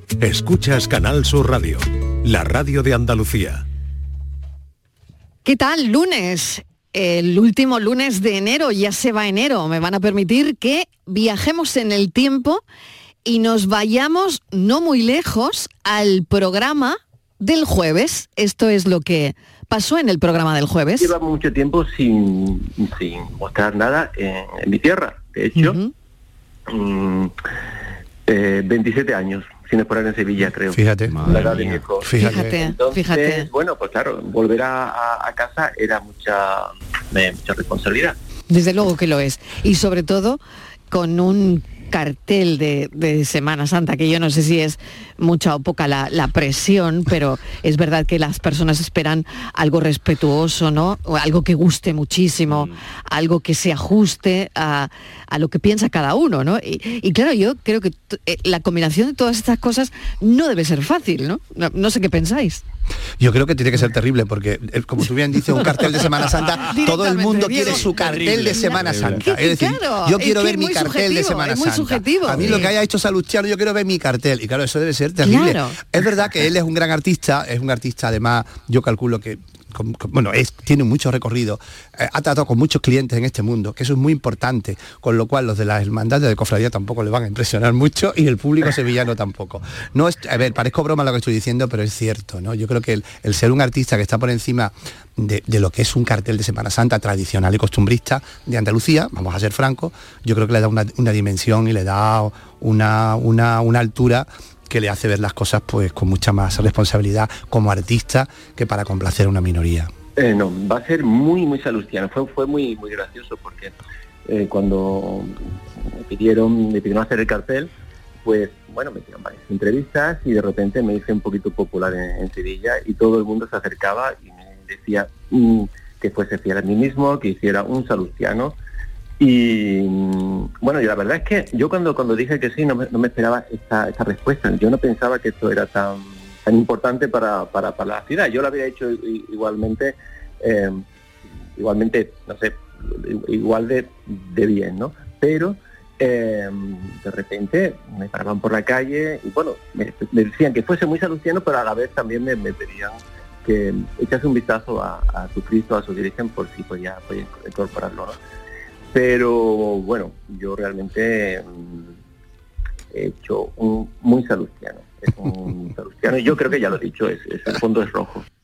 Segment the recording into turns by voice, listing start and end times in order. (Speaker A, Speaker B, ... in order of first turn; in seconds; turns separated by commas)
Speaker A: 0.2-3.6, Speaker B: 5.5-12.6, Speaker B: 13.2-21.1, Speaker C: 21.0-25.8, Speaker B: 25.6-25.9, Speaker C: 26.7-27.3, Speaker C: 28.3-38.2, Speaker D: 30.7-32.6, Speaker B: 32.1-33.5, Speaker B: 38.5-40.4, Speaker B: 40.9-62.6, Speaker D: 63.2-109.9, Speaker B: 66.6-72.7, Speaker B: 75.2-75.8, Speaker C: 110.2-117.7, Speaker C: 118.2-128.6, Speaker C: 129.2-140.8, Speaker C: 141.6-158.2, Speaker C: 158.9-162.0, Speaker C: 162.9-168.2